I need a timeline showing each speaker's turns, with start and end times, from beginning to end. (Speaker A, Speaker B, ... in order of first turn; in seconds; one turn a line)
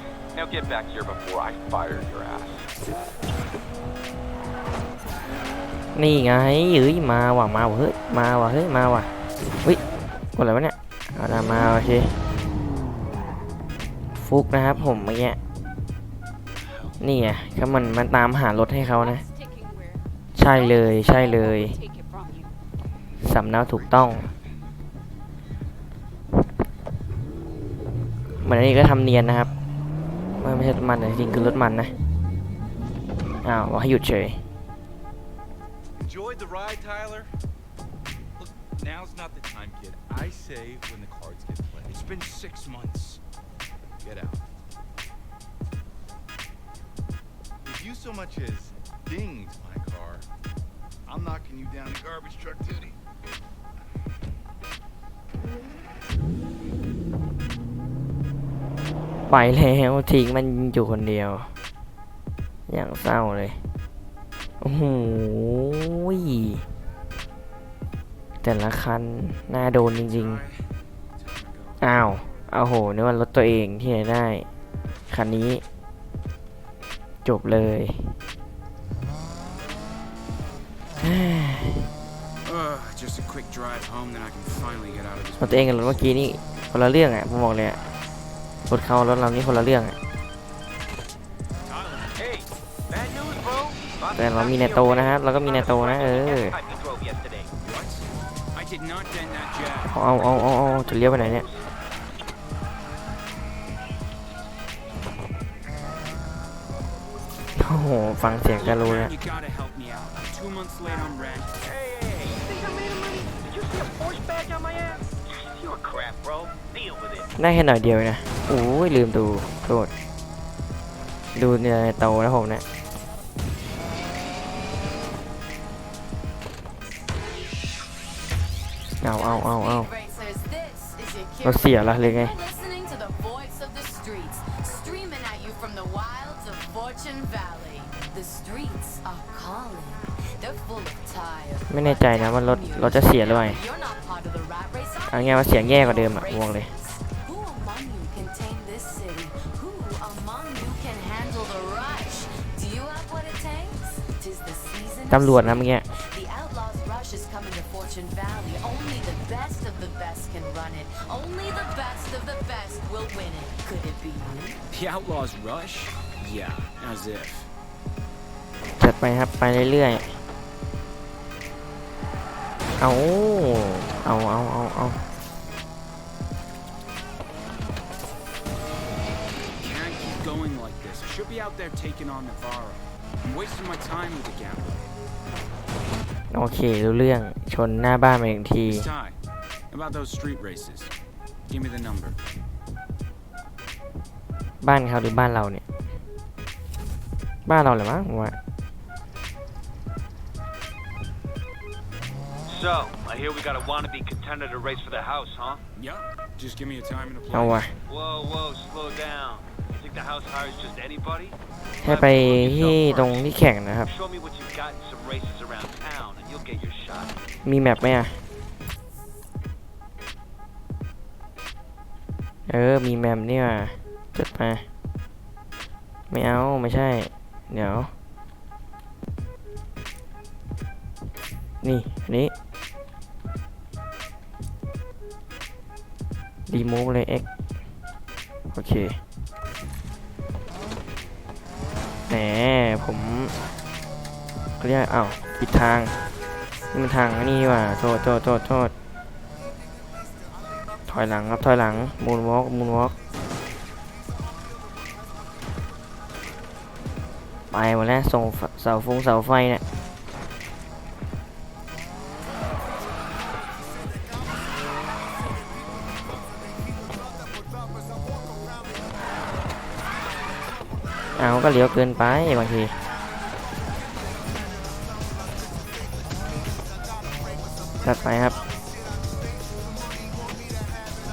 Speaker A: 0.3-2.7
Speaker B: 5.9-9.1
Speaker B: 10.3-12.2
Speaker B: 14.2-15.4
Speaker C: 14.7-15.1
Speaker B: 17.0-19.2
Speaker B: 20.4-21.7
Speaker B: 23.2-24.3
Speaker C: 23.6-24.5
Speaker B: 28.4-29.5
Speaker B: 30.4-31.9
Speaker B: 33.4-34.4
Speaker C: 36.0-37.3
Speaker C: 38.4-42.2
Speaker D: 41.8-43.2
Speaker C: 44.0-44.4
Speaker C: 47.6-50.2
Speaker C: 51.1-53.0
Speaker B: 59.3-61.5
Speaker B: 62.7-63.6
Speaker B: 64.6-66.6
Speaker B: 68.4-70.4
Speaker D: 69.7-71.8
Speaker B: 71.8-74.5
Speaker B: 75.1-75.6
Speaker B: 77.2-78.2
Speaker B: 81.0-81.9
Speaker D: 82.4-86.1
Speaker B: 85.4-87.8
Speaker B: 88.7-90.0
Speaker D: 91.7-92.1
Speaker E: 92.2-96.3
Speaker F: 93.8-97.5
Speaker B: 94.2-96.6
Speaker D: 97.6-100.0
Speaker B: 99.9-101.5
Speaker E: 100.5-101.6
Speaker B: 107.6-109.1
Speaker D: 108.5-111.5
Speaker F: 111.6-117.3
Speaker B: 117.3-119.9
Speaker B: 121.3-122.6
Speaker B: 129.0-129.9
Speaker G: 129.0-164.6
Speaker B: 131.4-132.3
Speaker B: 141.7-143.6
Speaker B: 145.1-146.7
Speaker B: 155.1-155.9
Speaker D: 164.7-167.5
Speaker B: 168.8-170.1
Speaker B: 172.8-175.0
Speaker D: 179.4-184.9
Speaker B: 186.3-188.9
Speaker D: 188.6-189.2
Speaker D: 189.7-190.9
Speaker D: 191.5-192.2
Speaker B: 194.6-195.6
Speaker B: 197.4-198.4
Speaker E: 202.5-205.6
Speaker D: 205.7-207.7
Speaker B: 207.3-207.7
Speaker E: 207.8-213.3
Speaker B: 211.8-213.9
Speaker E: 213.8-217.2
Speaker B: 217.4-218.2
Speaker B: 222.5-224.6
Speaker B: 226.1-227.9
Speaker B: 231.6-232.3
Speaker B: 236.5-237.2
Speaker B: 238.5-239.0
Speaker B: 242.1-243.3
Speaker B: 244.6-245.9
Speaker B: 246.7-248.7
Speaker B: 250.9-252.9
Speaker B: 257.5-259.6
Speaker B: 271.2-272.7
Speaker B: 277.8-278.4